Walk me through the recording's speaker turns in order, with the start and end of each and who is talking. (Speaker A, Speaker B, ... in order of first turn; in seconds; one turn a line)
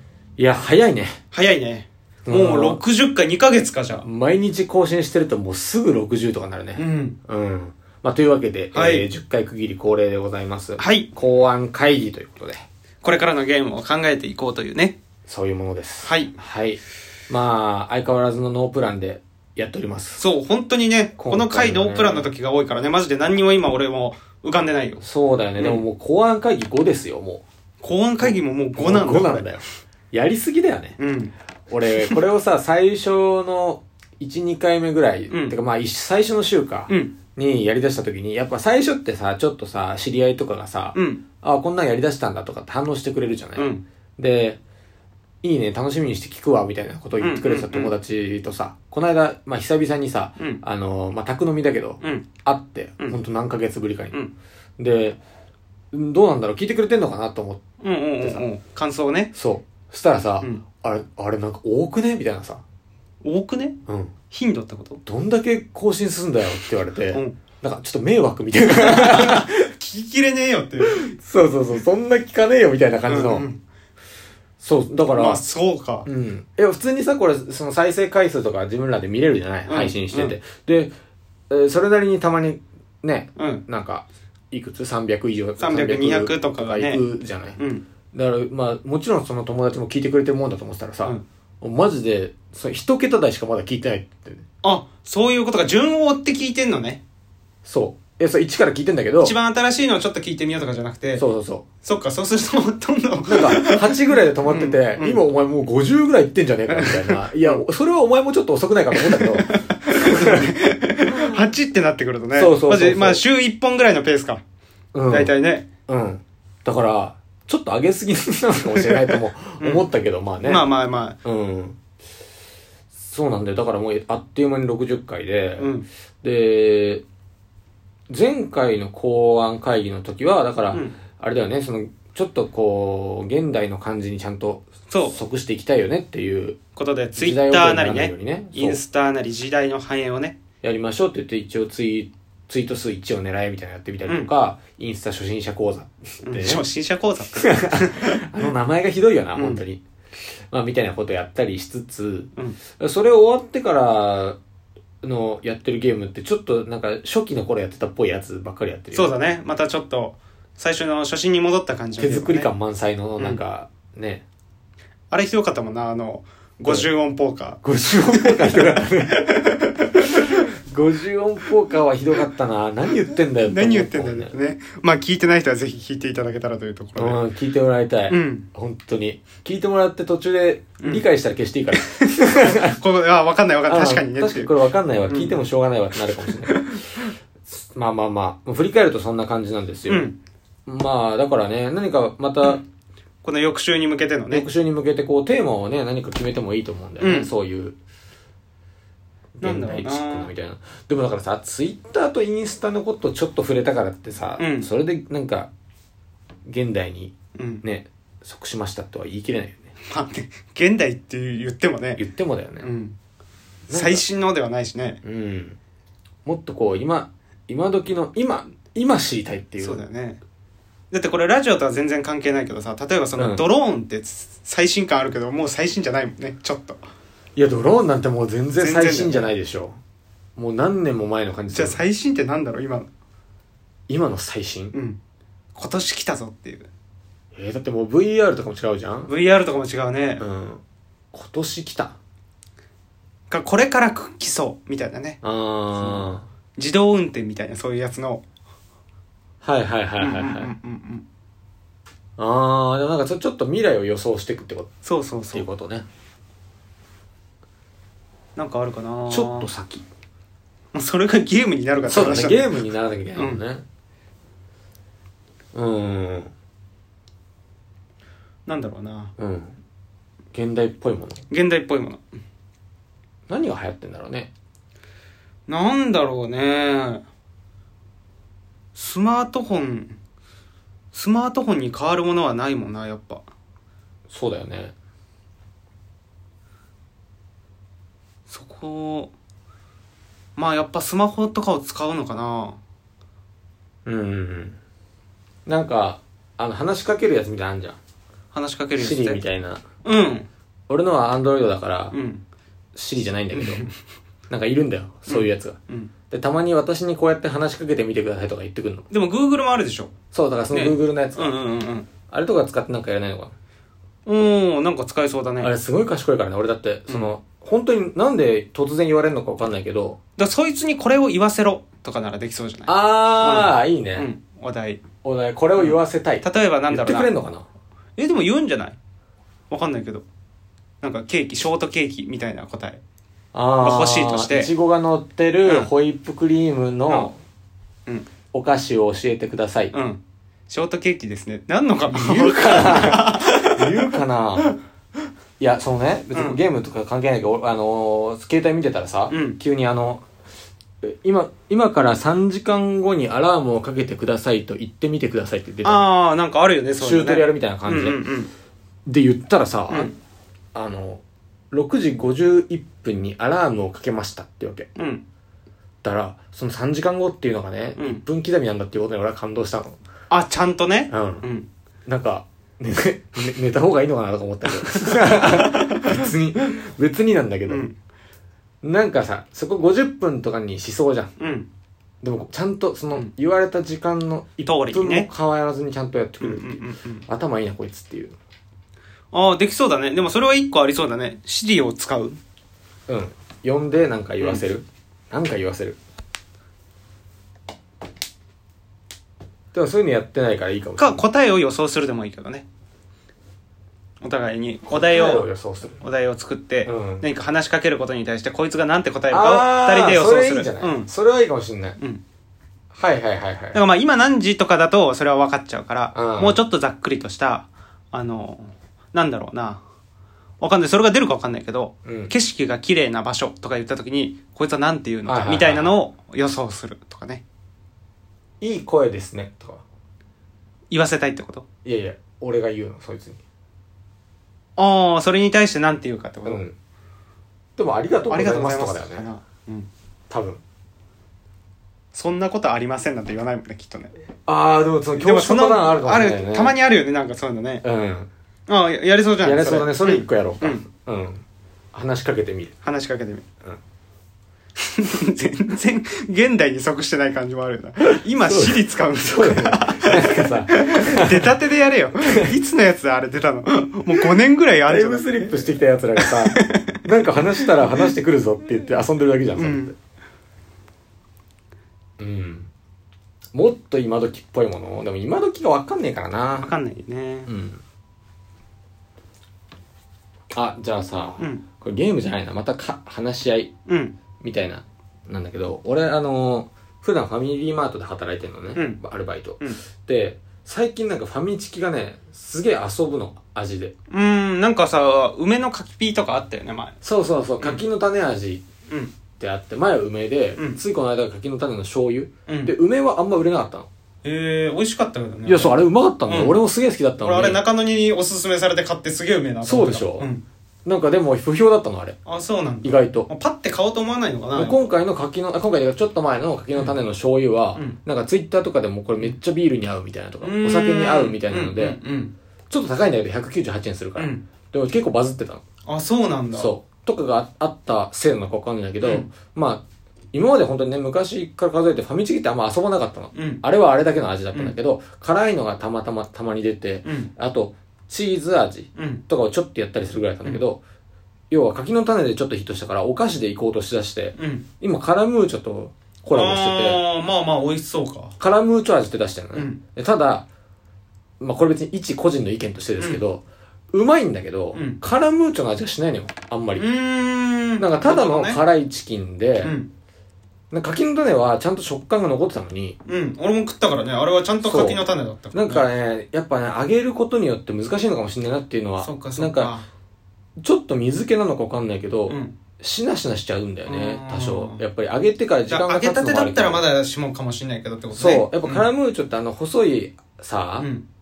Speaker A: 0.4-1.2
Speaker B: 1.3-4.0
Speaker A: 2.2-2.8
Speaker A: 4.0-12.6
Speaker B: 6.8-7.2
Speaker B: 8.7-9.1
Speaker B: 10.8-11.1
Speaker B: 13.0-15.0
Speaker A: 15.3-20.2
Speaker B: 16.0-16.4
Speaker B: 20.2-25.0
Speaker A: 21.2-22.3
Speaker A: 25.0-27.4
Speaker B: 25.6-25.8
Speaker B: 27.8-29.6
Speaker A: 28.2-31.0
Speaker B: 31.0-31.3
Speaker A: 31.7-44.6
Speaker B: 35.3-35.6
Speaker B: 36.9-37.1
Speaker B: 40.9-41.2
Speaker B: 43.5-43.8
Speaker A: 45.4-54.2
Speaker B: 47.2-47.9
Speaker B: 52.0-52.3
Speaker A: 54.8-55.2
Speaker A: 55.9-57.6
Speaker B: 57.8-59.3
Speaker A: 58.2-58.5
Speaker A: 59.3-62.6
Speaker B: 63.2-63.8
Speaker A: 63.9-64.1
Speaker B: 64.3-65.0
Speaker A: 65.0-69.5
Speaker B: 67.1-67.4
Speaker B: 68.7-71.2
Speaker A: 70.8-73.5
Speaker B: 73.1-73.6
Speaker A: 74.6-75.4
Speaker B: 75.1-76.1
Speaker A: 76.0-80.9
Speaker B: 79.7-80.3
Speaker A: 81.5-87.6
Speaker B: 83.3-83.6
Speaker B: 85.6-87.0
Speaker B: 87.6-87.8
Speaker A: 88.1-94.4
Speaker B: 94.6-97.0
Speaker A: 97.6-99.3
Speaker B: 99.2-101.2
Speaker A: 101.2-101.6
Speaker B: 101.8-105.2
Speaker A: 103.2-110.5
Speaker B: 106.7-107.6
Speaker B: 108.9-114.4
Speaker A: 112.3-113.2
Speaker A: 114.9-115.3
Speaker B: 115.1-115.7
Speaker A: 115.9-120.7
Speaker B: 118.7-119.9
Speaker B: 120.4-121.2
Speaker A: 121.2-121.8
Speaker A: 122.9-125.7
Speaker B: 125.6-125.9
Speaker A: 126.2-127.0
Speaker A: 128.1-136.6
Speaker B: 134.9-135.2
Speaker B: 136.8-140.4
Speaker A: 137.2-138.8
Speaker A: 140.6-146.6
Speaker B: 146.2-148.5
Speaker A: 147.3-149.8
Speaker B: 149.3-149.6
Speaker A: 150.5-154.4
Speaker A: 155.0-159.2
Speaker B: 158.9-162.5
Speaker A: 162.0-164.2
Speaker B: 165.1-167.6
Speaker A: 167.6-169.4
Speaker B: 168.1-170.1
Speaker A: 170.0-174.3
Speaker B: 173.4-177.2
Speaker A: 176.9-182.8
Speaker B: 178.1-178.5
Speaker B: 180.8-181.1
Speaker B: 181.7-184.5
Speaker A: 183.7-186.7
Speaker B: 185.1-185.4
Speaker B: 186.3-186.9
Speaker A: 187.5-190.1
Speaker B: 189.9-190.2
Speaker A: 190.7-192.6
Speaker B: 193.2-194.4
Speaker A: 194.3-197.8
Speaker B: 197.0-197.3
Speaker B: 199.4-200.3
Speaker A: 199.4-205.5
Speaker B: 204.4-204.7
Speaker A: 206.4-209.7
Speaker B: 207.3-207.6
Speaker B: 209.8-212.0
Speaker A: 212.0-212.7
Speaker B: 212.6-212.9
Speaker A: 213.7-214.0
Speaker B: 213.7-215.0
Speaker A: 215.0-215.6
Speaker A: 216.2-219.8
Speaker B: 219.6-220.2
Speaker B: 220.9-226.8
Speaker A: 223.2-223.4
Speaker A: 227.3-229.8
Speaker B: 228.6-229.3
Speaker A: 230.3-231.8
Speaker B: 231.5-232.9
Speaker A: 233.9-234.8
Speaker B: 234.7-235.0
Speaker B: 235.5-236.7
Speaker A: 237.3-239.1
Speaker B: 239.1-240.2
Speaker A: 240.2-240.6
Speaker A: 241.1-241.9
Speaker B: 243.3-245.2
Speaker A: 245.2-246.2
Speaker B: 245.8-248.2
Speaker A: 249.4-250.5
Speaker B: 250.0-251.0
Speaker A: 252.2-254.7
Speaker B: 254.8-255.5
Speaker A: 255.3-255.8
Speaker B: 258.4-259.5
Speaker A: 259.1-259.8
Speaker B: 260.7-262.6
Speaker A: 261.9-263.6
Speaker B: 263.1-263.4
Speaker A: 265.5-266.3
Speaker B: 268.4-269.1
Speaker A: 269.2-269.5
Speaker A: 270.3-271.2
Speaker B: 271.3-272.0
Speaker A: 273.3-274.3
Speaker B: 275.5-277.0
Speaker B: 278.7-280.0
Speaker B: 280.9-283.2
Speaker A: 284.1-284.7
Speaker B: 288.3-289.1
Speaker B: 290.4-292.6
Speaker A: 293.9-294.6
Speaker A: 295.4-297.8
Speaker B: 298.3-299.2
Speaker A: 298.8-299.6
Speaker B: 299.8-300.3
Speaker A: 300.7-301.9
Speaker B: 301.9-302.2
Speaker A: 302.7-303.7
Speaker B: 303.3-303.8
Speaker A: 304.3-305.6
Speaker B: 305.1-305.9
Speaker A: 306.1-308.9
Speaker B: 308.9-309.9
Speaker A: 310.1-311.4
Speaker B: 310.5-311.9
Speaker A: 312.1-313.3
Speaker B: 314.1-315.5
Speaker A: 315.4-320.0
Speaker B: 316.9-317.1
Speaker B: 320.2-324.8
Speaker A: 322.6-324.1
Speaker A: 325.0-327.4
Speaker B: 325.6-327.1
Speaker B: 328.0-328.8
Speaker B: 329.5-330.0
Speaker B: 330.8-332.8
Speaker A: 333.3-337.2
Speaker B: 333.6-334.5
Speaker B: 335.4-335.7
Speaker B: 336.9-337.1
Speaker A: 338.3-339.7
Speaker B: 339.7-344.5
Speaker A: 341.9-344.5
Speaker A: 345.4-350.0
Speaker B: 346.1-346.4
Speaker B: 349.1-349.4
Speaker A: 350.8-355.8
Speaker B: 355.6-358.3
Speaker A: 356.8-358.0
Speaker A: 358.9-359.9
Speaker B: 359.7-359.9
Speaker A: 360.5-364.7
Speaker B: 364.8-365.0
Speaker A: 365.8-369.8
Speaker B: 367.8-368.0
Speaker B: 370.1-371.5
Speaker A: 370.9-371.2
Speaker A: 371.9-377.7
Speaker B: 374.6-376.1
Speaker B: 377.5-377.7
Speaker A: 378.6-381.1
Speaker B: 381.2-381.5
Speaker A: 382.0-386.6
Speaker B: 384.4-385.1
Speaker B: 386.2-387.1
Speaker A: 387.1-388.1
Speaker B: 389.1-392.2
Speaker A: 392.9-395.8
Speaker A: 399.5-401.1
Speaker B: 400.8-402.4
Speaker B: 404.0-405.3
Speaker A: 404.7-405.8
Speaker B: 405.8-410.9
Speaker A: 406.6-407.1
Speaker A: 409.1-411.8
Speaker A: 412.7-413.6
Speaker B: 413.5-419.6
Speaker A: 415.9-416.4
Speaker B: 420.4-427.2
Speaker A: 421.8-422.1
Speaker A: 425.0-425.8
Speaker A: 428.4-429.6
Speaker B: 430.7-431.4
Speaker A: 431.6-433.2
Speaker B: 434.6-436.4
Speaker A: 436.2-436.6
Speaker A: 437.6-439.1
Speaker B: 438.1-439.7
Speaker A: 440.1-440.4
Speaker B: 441.9-443.9
Speaker A: 444.2-446.6
Speaker B: 445.0-447.6
Speaker A: 447.6-448.1
Speaker B: 448.5-450.6
Speaker A: 449.2-452.6
Speaker B: 452.6-453.2
Speaker B: 454.6-467.9
Speaker A: 457.9-461.3
Speaker A: 464.7-469.8
Speaker B: 469.4-469.7
Speaker A: 472.0-472.5
Speaker A: 473.3-476.5
Speaker B: 476.4-477.3
Speaker A: 477.3-477.6
Speaker A: 480.3-483.5
Speaker B: 481.2-481.4
Speaker B: 483.7-483.9
Speaker A: 484.2-493.7
Speaker B: 488.5-488.8
Speaker B: 493.9-496.8
Speaker A: 496.8-498.5
Speaker B: 498.7-498.9
Speaker A: 499.2-503.7
Speaker B: 502.3-502.5
Speaker B: 504.0-506.4
Speaker A: 505.2-507.4
Speaker B: 507.0-510.2
Speaker A: 509.4-510.1
Speaker A: 510.6-512.0
Speaker B: 512.0-514.6
Speaker A: 512.6-513.1
Speaker A: 514.3-521.8
Speaker B: 520.2-522.1
Speaker A: 522.5-525.4
Speaker B: 524.0-524.2
Speaker B: 525.7-526.5
Speaker A: 526.3-540.6
Speaker B: 528.8-529.1
Speaker B: 533.1-533.4
Speaker B: 536.8-537.1
Speaker B: 538.8-539.0
Speaker A: 541.3-546.8
Speaker B: 544.2-544.5
Speaker B: 546.1-548.1
Speaker A: 548.2-550.3
Speaker B: 549.3-549.6
Speaker A: 551.2-556.7
Speaker B: 554.5-554.8
Speaker B: 556.6-558.4
Speaker A: 557.6-559.5
Speaker B: 559.4-559.7
Speaker A: 560.5-562.8
Speaker B: 562.9-565.7
Speaker A: 564.4-564.8
Speaker A: 565.3-569.5
Speaker B: 568.8-569.6
Speaker A: 570.4-576.6
Speaker B: 572.1-572.4
Speaker B: 573.6-574.6
Speaker B: 575.5-578.7
Speaker A: 577.9-580.7
Speaker B: 580.6-580.9